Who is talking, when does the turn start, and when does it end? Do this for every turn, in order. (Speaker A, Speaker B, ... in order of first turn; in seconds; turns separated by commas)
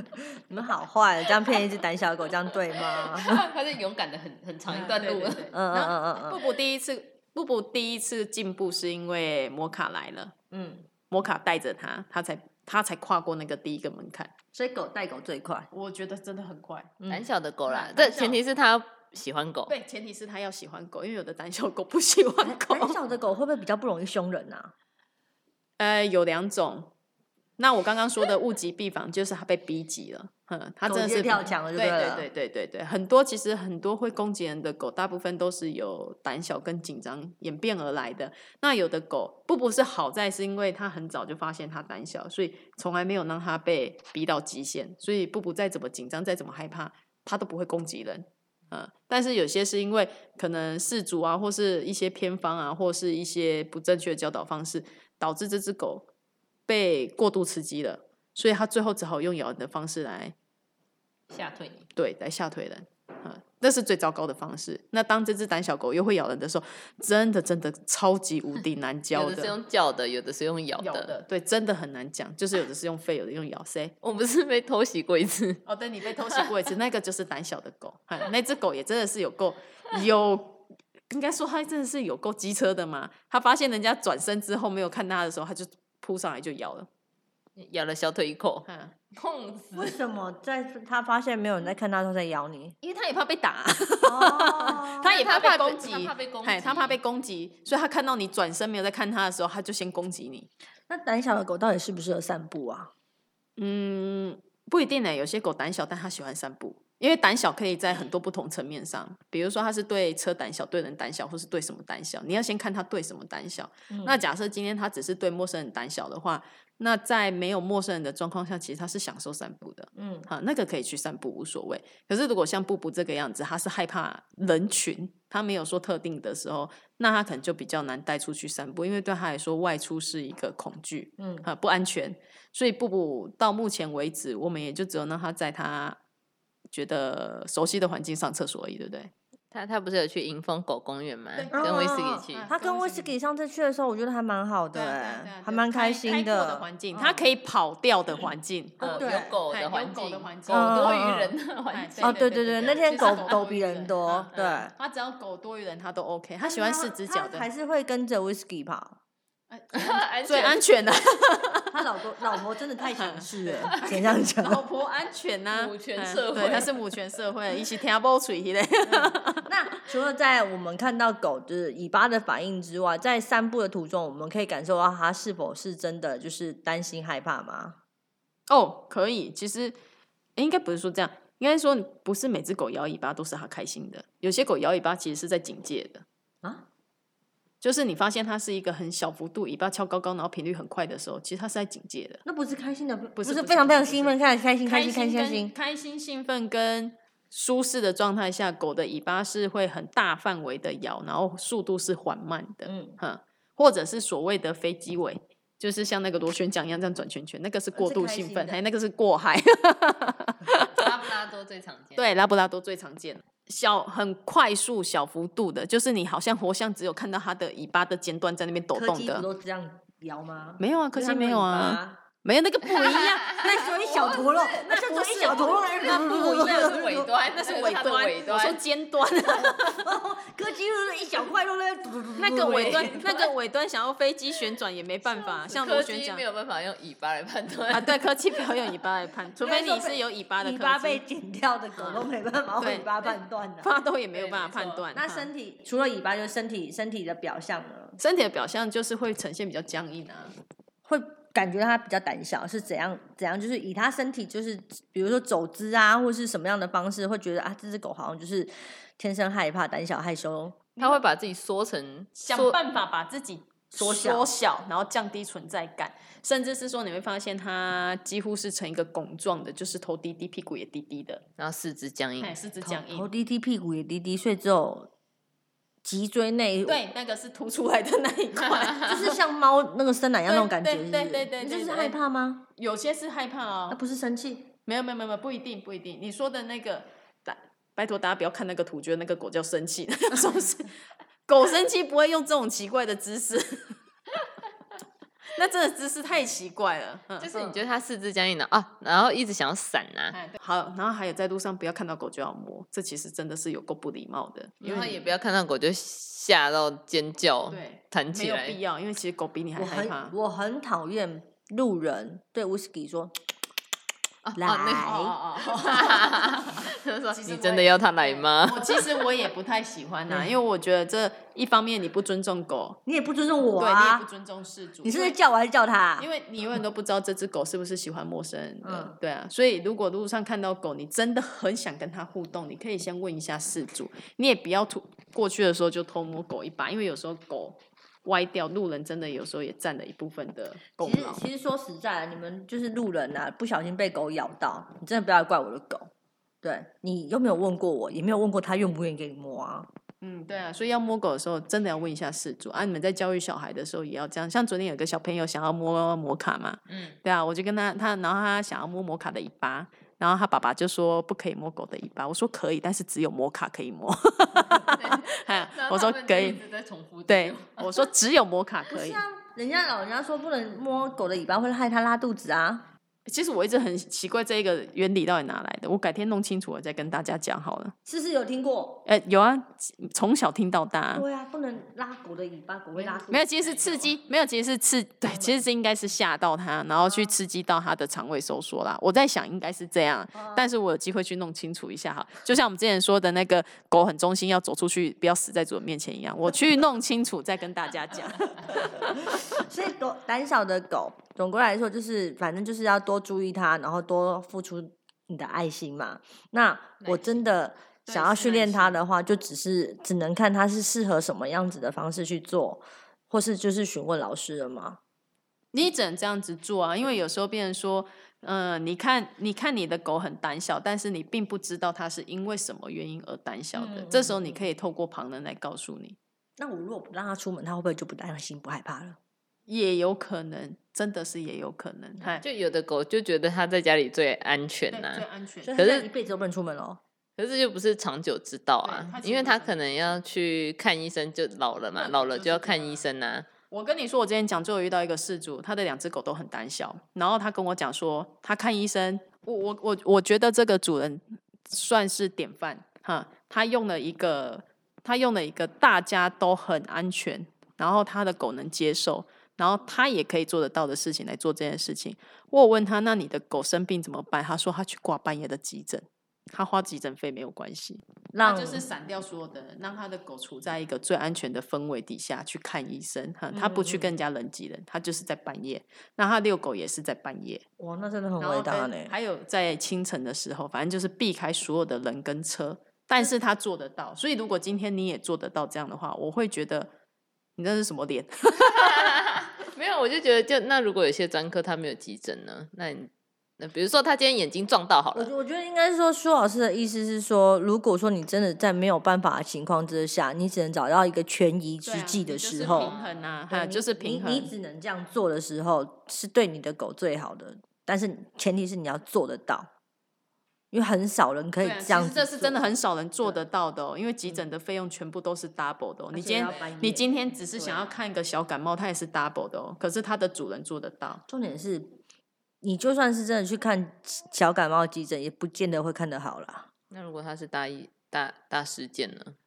Speaker A: 0.2-3.4, Speaker B: 2.7-5.5, Speaker C: 4.7-10.3, Speaker A: 5.5-6.4, Speaker A: 10.5-10.9, Speaker C: 11.1-14.3, Speaker A: 14.5-15.7, Speaker C: 15.7-16.9, Speaker B: 17.1-19.7, Speaker C: 17.7-18.4, Speaker C: 19.7-23.0, Speaker A: 22.4-24.7, Speaker C: 25.8-26.9, Speaker C: 27.6-56.1, Speaker A: 30.9-32.3, Speaker C: 56.7-60.3, Speaker B: 61.3-61.9, Speaker C: 62.0-69.5, Speaker B: 69.1-71.1, Speaker C: 70.8-73.9, Speaker B: 74.0-75.6, Speaker C: 75.7-86.9, Speaker B: 76.2-76.5, Speaker B: 87.6-90.0, Speaker C: 88.7-88.9, Speaker A: 89.7-92.8, Speaker C: 92.8-100.5, Speaker A: 94.0-95.1, Speaker B: 95.0-97.0, Speaker A: 100.9-102.9, Speaker C: 103.6-136.0, Speaker A: 113.9-114.2, Speaker A: 120.0-120.3, Speaker A: 131.2-131.4, Speaker C: 136.7-139.1, Speaker B: 139.5-142.5, Speaker C: 141.4-143.1, Speaker A: 141.5-147.2, Speaker C: 144.7-151.0, Speaker A: 148.8-149.4, Speaker B: 148.8-152.2, Speaker A: 150.5-151.3, Speaker C: 151.7-157.5, Speaker A: 152.0-154.7, Speaker B: 154.3-154.6, Speaker A: 156.4-159.0, Speaker C: 159.5-161.8, Speaker B: 159.7-160.6, Speaker A: 161.7-164.6, Speaker C: 162.9-169.5, Speaker B: 165.5-166.7, Speaker A: 168.8-177.8, Speaker C: 178.5-179.8, Speaker C: 180.4-186.0, Speaker C: 187.6-192.2, Speaker A: 192.2-195.5, Speaker C: 193.2-210.9, Speaker A: 202.7-203.0, Speaker A: 207.7-208.6, Speaker B: 210.6-212.0, Speaker C: 212.0-219.2, Speaker A: 218.7-222.0, Speaker C: 220.6-223.7, Speaker B: 222.8-224.7, Speaker A: 223.4-227.1, Speaker C: 224.6-229.9, Speaker B: 225.7-228.6, Speaker A: 229.3-233.2, Speaker C: 232.2-236.2, Speaker B: 235.1-238.8, Speaker C: 237.7-241.0, Speaker A: 239.4-243.7, Speaker C: 242.6-245.3, Speaker B: 244.1-244.8, Speaker A: 244.9-248.0, Speaker C: 248.0-250.3, Speaker A: 250.8-260.6, Speaker C: 260.8-261.0, Speaker B: 260.8-262.6, Speaker C: 262.2-271.2, Speaker A: 263.7-264.3, Speaker B: 271.4-272.4, Speaker C: 272.2-273.1, Speaker A: 272.6-274.9, Speaker A: 275.8-276.8, Speaker C: 276.6-279.2, Speaker A: 278.8-282.4, Speaker C: 280.3-282.0, Speaker C: 282.6-283.8, Speaker A: 283.7-284.5, Speaker C: 284.7-290.7, Speaker C: 291.3-293.8, Speaker C: 295.3-297.5, Speaker B: 297.2-300.1, Speaker C: 300.1-305.1, Speaker B: 304.6-308.6, Speaker C: 307.5-310.1, Speaker A: 309.6-313.1, Speaker B: 314.2-318.9, Speaker A: 314.4-315.1, Speaker C: 314.8-322.8, Speaker A: 322.9-324.1, Speaker C: 323.6-325.2, Speaker A: 324.8-326.1, Speaker C: 326.0-341.2, Speaker A: 328.6-328.9, Speaker A: 340.8-345.9, Speaker A: 346.4-349.7, Speaker C: 350.0-366.4, Speaker B: 356.7-357.0, Speaker B: 364.7-367.9, Speaker C: 367.1-369.0, Speaker A: 368.7-372.7, Speaker C: 373.1-377.7, Speaker A: 377.9-378.8, Speaker C: 378.9-381.1, Speaker A: 380.9-383.9, Speaker B: 382.9-383.6, Speaker C: 383.1-399.0, Speaker A: 385.1-385.4, Speaker A: 386.9-387.1, Speaker A: 390.1-390.5, Speaker A: 398.9-414.8, Speaker B: 406.8-407.2, Speaker C: 407.9-408.8, Speaker C: 415.5-426.0, Speaker A: 423.5-424.4, Speaker A: 426.4-429.0, Speaker C: 429.5-432.2, Speaker B: 432.2-435.1, Speaker C: 434.7-435.6, Speaker A: 435.4-436.8, Speaker B: 435.6-435.9, Speaker B: 437.2-443.3, Speaker C: 438.6-440.0, Speaker C: 441.8-442.8, Speaker C: 443.5-477.4, Speaker A: 468.1-468.6, Speaker A: 473.3-473.9, Speaker A: 477.6-478.9, Speaker C: 478.2-486.7, Speaker C: 487.4-488.9, Speaker B: 488.5-495.1, Speaker A: 494.9-502.7, Speaker C: 501.6-504.3, Speaker B: 502.4-503.1, Speaker A: 503.3-509.5, Speaker A: 510.5-512.4, Speaker C: 511.4-521.0, Speaker A: 515.9-517.6, Speaker A: 521.1-521.8, Speaker A: 522.4-526.5, Speaker B: 526.7-529.1